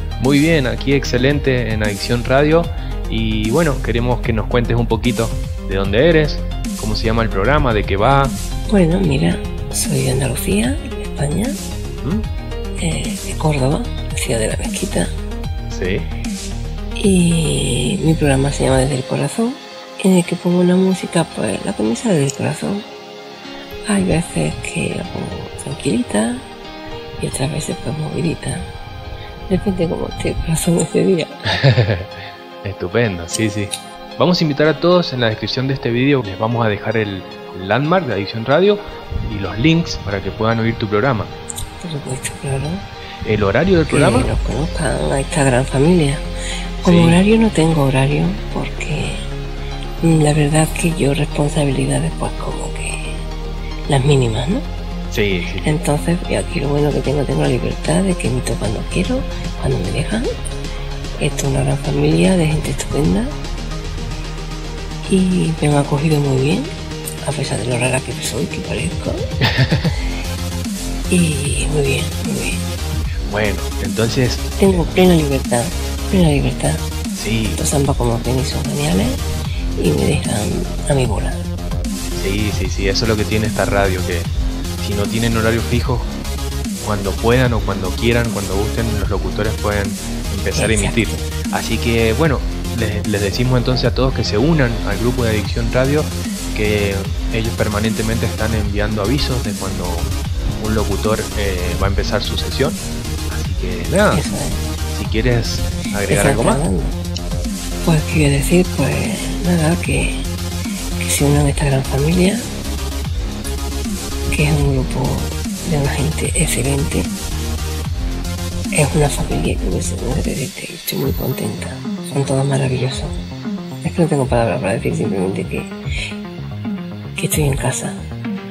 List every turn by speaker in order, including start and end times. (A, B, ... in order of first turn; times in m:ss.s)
0:00.2-0:08.3 A
0:08.7-0:11.6 B
0:12.0-0:12.2 A
0:12.8-0:15.1 B
0:15.7-0:16.1 A
0:17.0-0:22.8 B
0:23.9-0:26.5 B
0:27.2-0:28.7 B
0:29.5-0:31.3 B
0:31.5-0:41.3 A
0:41.8-0:42.8 B
0:43.2-0:44.3 A
0:43.9-0:46.2 B
0:46.8-0:49.3 B
0:46.8-0:47.2 A
0:50.0-0:53.2 B
0:53.9-0:54.6 B
0:55.1-0:55.8 A
0:55.6-1:00.4 B
1:01.2-1:03.3 B
1:05.1-1:06.7 B
1:07.2-1:09.2 B
1:09.5-1:09.9 A
1:11.1-1:12.6 B
1:13.2-1:15.0 A
1:14.6-1:16.8 B
1:17.2-1:17.6 A
1:17.6-1:19.2 B
1:19.8-1:21.4 B
1:22.2-1:24.3 A
1:24.8-1:26.1 A
1:26.8-1:44.2 A
1:30.5-1:31.2 B
1:44.1-1:44.6 B
1:44.9-1:46.6 A
1:46.1-1:47.0 B
1:47.8-1:50.2 B
1:51.0-1:52.4 B
1:54.3-1:57.1 B
1:58.7-2:03.1 B
2:03.8-2:05.7 B
2:07.2-2:08.0 B